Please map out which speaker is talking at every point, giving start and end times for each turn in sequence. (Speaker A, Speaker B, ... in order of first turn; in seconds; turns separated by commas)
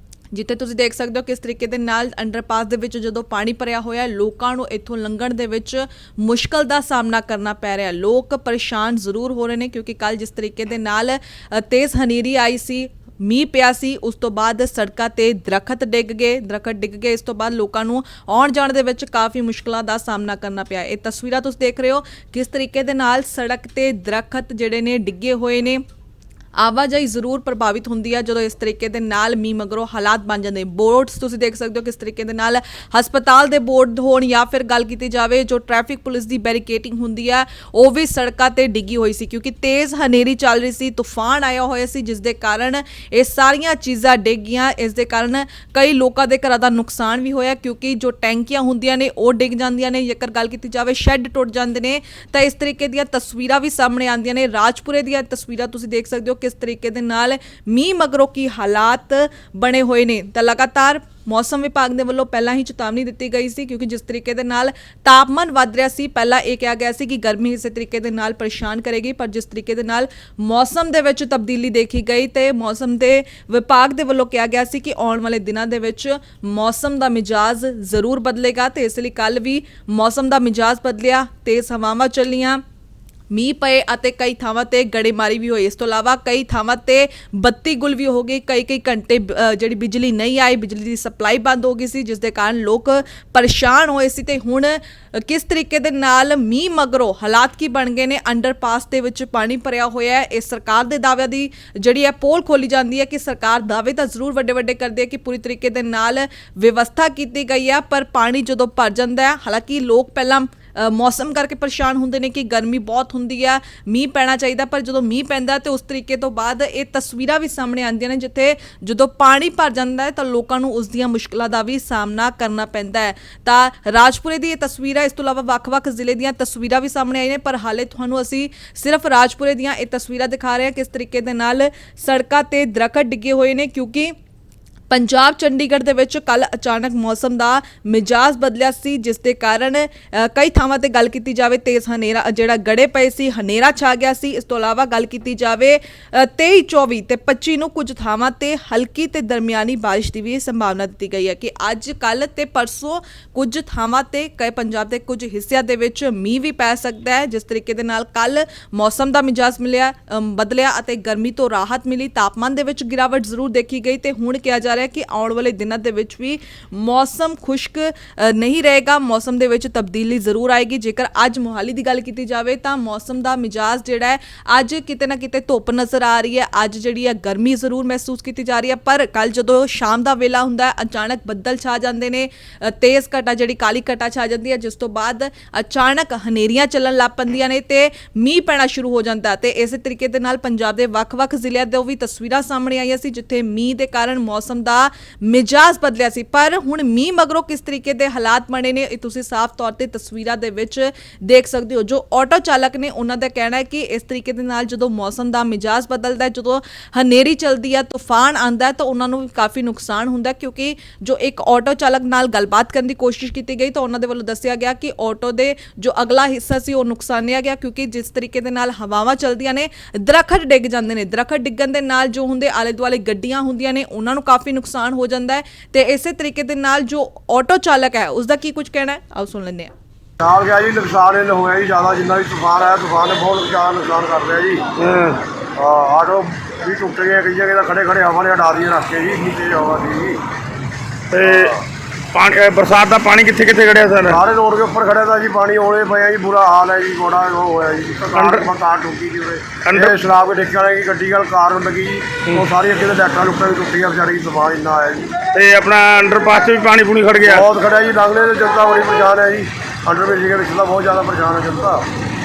Speaker A: 0.3-25.8, Speaker A: 26.6-82.6, Speaker A: 83.3-134.1, Speaker A: 134.9-229.7, Speaker B: 230.2-234.6, Speaker C: 234.8-235.2, Speaker B: 235.6-240.2, Speaker C: 241.1-241.6, Speaker B: 241.2-241.6, Speaker C: 242.1-244.2, Speaker B: 244.1-255.1, Speaker C: 248.1-248.4, Speaker C: 249.6-250.0, Speaker C: 255.3-257.4, Speaker B: 257.2-261.9